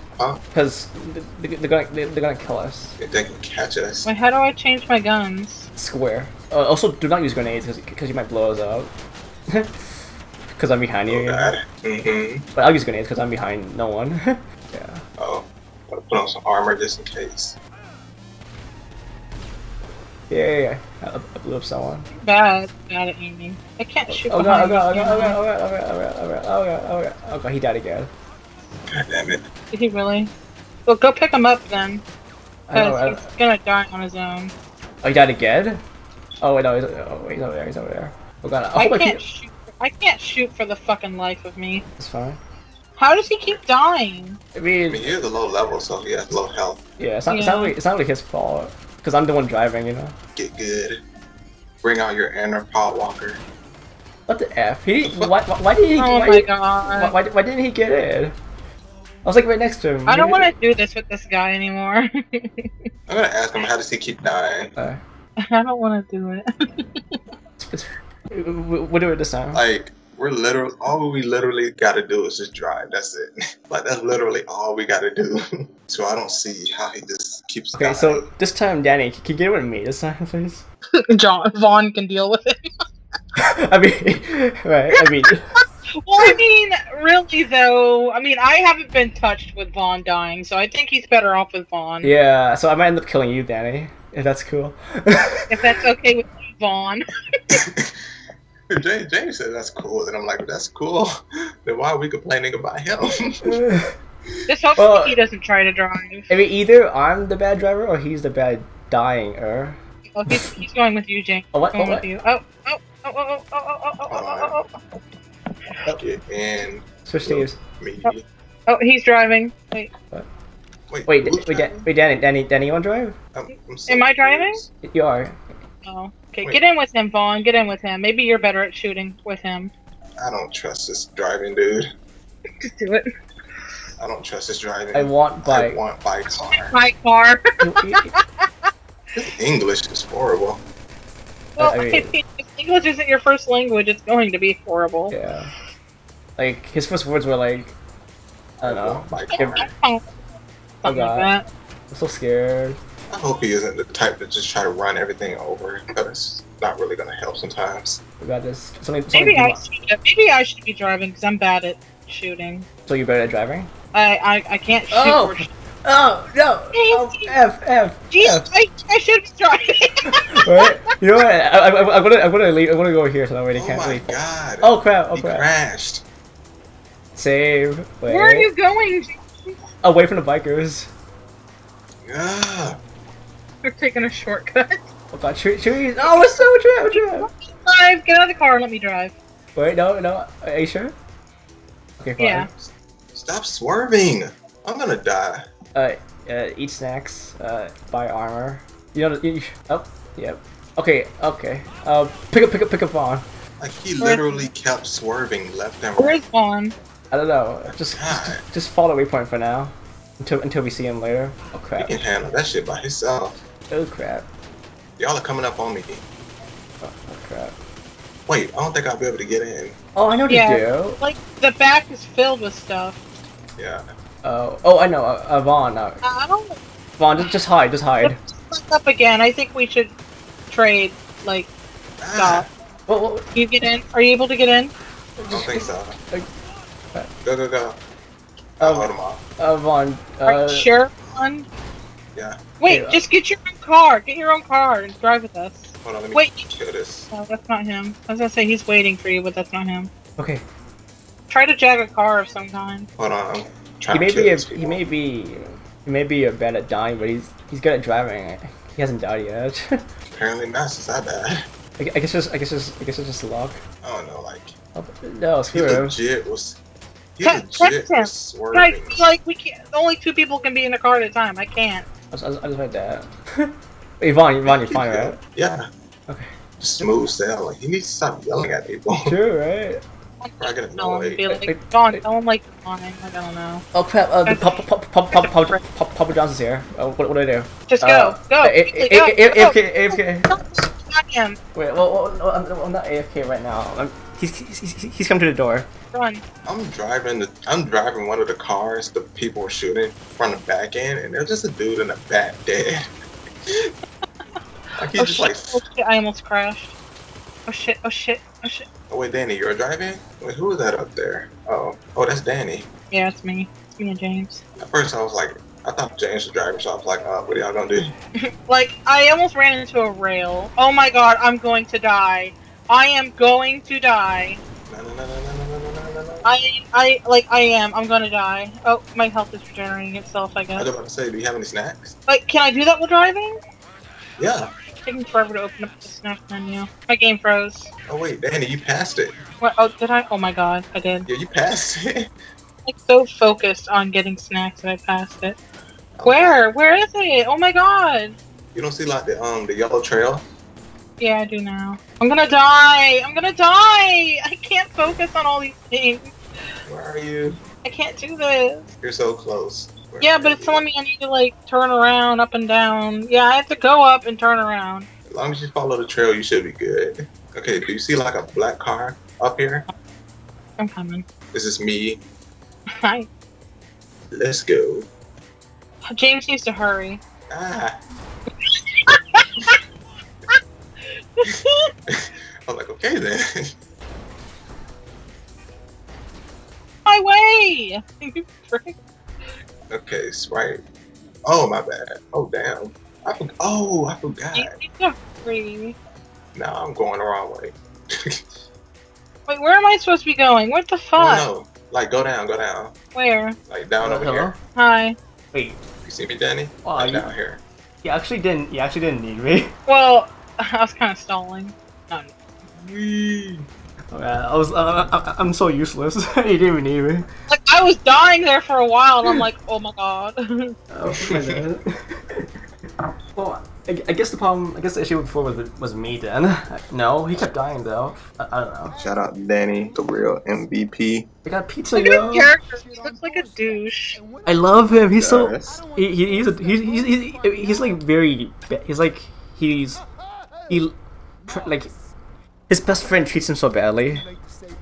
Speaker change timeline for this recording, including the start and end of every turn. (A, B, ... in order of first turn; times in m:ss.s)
0:00.2-0:00.4 A
0:00.5-0:03.0 B
0:03.0-0:04.1 A
0:04.0-0:05.7 C
0:05.8-0:08.9 B
0:09.5-0:11.5 B
0:11.1-0:12.4 A
0:12.6-0:15.0 B
0:15.2-0:17.6 A
0:20.3-0:22.1 B
0:22.2-0:25.4 C
0:24.1-0:28.1 B
0:28.9-0:29.4 A
0:29.7-0:30.3 C
0:30.9-0:32.0 C
0:32.7-0:33.3 B
0:32.7-0:34.5 C
0:35.0-0:35.8 B
0:36.4-0:39.2 B
0:38.8-0:41.8 C
0:42.0-0:42.4 B
0:43.0-0:44.4 C
0:44.6-0:45.2 B
0:44.9-0:46.8 A
0:47.0-0:50.2 B
0:47.3-0:47.8 C
0:50.4-0:51.0 A
0:51.8-0:53.4 A
0:54.3-0:58.4 B
0:55.0-0:55.3 A
0:56.0-0:57.1 C
0:59.2-1:00.5 B
1:00.1-1:02.9 C
1:03.1-1:04.7 A
1:05.4-1:07.2 C
1:07.6-1:09.6 B
1:09.5-1:18.3 A
1:17.7-1:20.6 B
1:21.0-1:22.7 C
1:23.4-1:25.5 B
1:26.0-1:32.1 C
1:32.0-1:35.6 B
1:35.5-1:37.6 C
1:37.5-1:38.0 A
1:38.7-1:43.6 A
1:43.4-1:44.0 B
1:44.5-1:46.3 C
1:44.8-1:45.2 B
1:46.3-1:50.6 B
1:50.1-1:54.7 C
1:51.5-1:52.1 B
1:54.1-1:54.6 A
1:56.0-1:58.3 A
1:57.0-1:57.6 B
1:58.7-1:59.9 C
2:00.9-2:01.8 A
2:01.1-2:03.2 B
2:03.3-2:04.7 A
2:03.9-2:04.6 C
2:04.8-2:05.4 B
2:05.8-2:09.7 C
2:10.2-2:11.9 A
2:12.6-2:13.1 C
2:14.0-2:16.8 A
2:14.9-2:15.8 B
2:16.5-2:18.5 C
2:17.6-2:18.1 B
2:19.1-2:20.6 A
2:21.6-2:25.1 C
2:21.6-2:22.2 B
2:25.1-2:25.5 B
2:26.4-2:27.8 B
2:28.6-2:29.6 B
2:28.6-2:29.7 A
2:29.3-2:30.1 C
2:30.8-2:31.4 C
2:30.8-2:31.3 B
2:31.9-2:32.8 B
2:33.1-2:38.0 A
2:38.2-2:39.6 B
2:39.1-2:42.6 C
2:42.9-2:43.7 B
2:43.9-2:45.5 C
2:44.9-2:48.5 B
2:46.7-2:47.3 C
2:48.1-2:50.7 C
2:50.1-2:55.5 B
2:53.6-2:56.0 A
2:57.1-2:58.5 B
2:58.1-2:59.5 C
2:59.8-3:00.9 B
3:02.0-3:02.8 A
3:03.6-3:04.8 C
3:05.1-3:07.3 B
3:06.0-3:09.2 C
3:09.6-3:10.9 B
3:12.0-3:12.5 B
3:12.2-3:12.5 C
3:12.5-3:15.4 A
3:15.7-3:23.2 B
3:23.6-3:26.2 A
3:24.0-3:24.5 C
3:26.0-3:26.8 C
3:27.1-3:32.0 B
3:27.6-3:28.4 A
3:31.8-3:33.4 A
3:33.7-3:34.3 B
3:35.0-3:36.0 A
3:36.8-3:37.6 B
3:38.3-3:39.8 A
3:40.0-3:41.0 B
3:40.3-3:43.0 C
3:43.6-3:43.9 A
3:44.2-3:46.0 B
3:46.0-3:46.6 C
3:47.0-3:48.2 B
3:48.0-3:49.9 C
3:50.5-3:51.5 C
3:52.0-3:52.5 A
3:52.1-3:52.5 C
3:52.9-3:53.2 B
3:53.3-3:54.7 C
3:55.2-3:56.3 B
3:55.3-3:56.0 A
3:57.2-3:57.8 A
3:58.6-3:59.2 A
3:58.6-4:00.7 B
4:00.2-4:01.5 C
4:02.1-4:02.4 A
4:02.6-4:06.5 C
4:02.7-4:03.0 B
4:05.8-4:07.1 A
4:07.1-4:09.9 C
4:10.2-4:10.4 B
4:11.3-4:12.9 C
4:13.0-4:14.8 A
4:13.9-4:19.8 B
4:20.1-4:21.5 A
4:21.8-4:23.6 B
4:23.8-4:24.6 A
4:24.8-4:26.0 B
4:25.5-4:26.6 A
4:27.2-4:29.0 A
4:27.2-4:31.9 C
4:32.1-4:35.2 B
4:34.5-4:35.7 A
4:36.6-4:39.2 A
4:39.0-4:39.8 B
4:40.2-4:43.6 C
4:40.4-4:41.5 A
4:41.5-4:42.0 B
4:43.7-4:50.3 B
4:44.2-4:45.6 C
4:47.7-4:51.4 C
4:51.6-4:55.7 B
4:55.9-4:56.2 C
4:56.4-5:02.9 A
5:04.8-5:05.6 A
5:05.0-5:06.8 C
5:07.5-5:08.7 C
5:08.9-5:12.7 A
5:12.9-5:14.4 C
5:14.6-5:17.9 A
5:18.2-5:24.4 C
5:24.7-5:26.3 A
5:26.2-5:30.7 C
5:30.6-5:32.0 A
5:32.1-5:33.4 C
5:34.2-5:34.5 A
5:34.8-5:37.7 C
5:37.9-5:39.2 A
5:39.4-5:41.1 C
5:41.1-5:42.1 A
5:42.6-5:45.4 C
5:46.0-5:46.4 A
5:46.0-5:48.2 C
5:48.5-5:50.3 A
5:51.0-5:56.1 C
5:56.7-5:57.4 A
5:57.6-5:58.7 C
5:58.8-6:00.6 A
6:00.0-6:04.9 C
6:05.1-6:09.6 A
6:10.6-6:11.0 C
6:11.3-6:12.0 A
6:12.7-6:13.1 C
6:14.1-6:14.9 A
6:15.9-6:17.0 C
6:17.3-6:17.8 A
6:18.4-6:19.6 C
6:21.2-6:21.7 C
6:21.9-6:23.5 A
6:26.9-6:28.8 C
6:29.7-6:30.6 A
6:31.2-6:34.6 A
6:34.4-6:35.8 C
6:36.4-6:38.2 A
6:39.3-6:41.3 C
6:41.0-6:42.7 A
6:42.9-6:43.4 C
6:43.5-6:44.3 A
6:43.8-6:44.4 B
6:44.6-6:45.0 C
6:45.3-6:45.6 B
6:45.8-6:47.4 A
6:46.6-6:47.1 B
6:47.8-6:49.5 B
6:49.7-6:52.1 C
6:52.6-6:57.1 B
6:57.3-7:00.6 C
7:00.7-7:02.3 B
7:01.0-7:01.4 A
7:03.2-7:08.8 B
7:08.8-7:11.1 A
7:11.2-7:12.3 B
7:11.8-7:14.1 C
7:14.2-7:19.8 B
7:15.0-7:15.6 A
7:20.5-7:20.7 B
7:21.3-7:21.7 B
7:22.5-7:24.1 B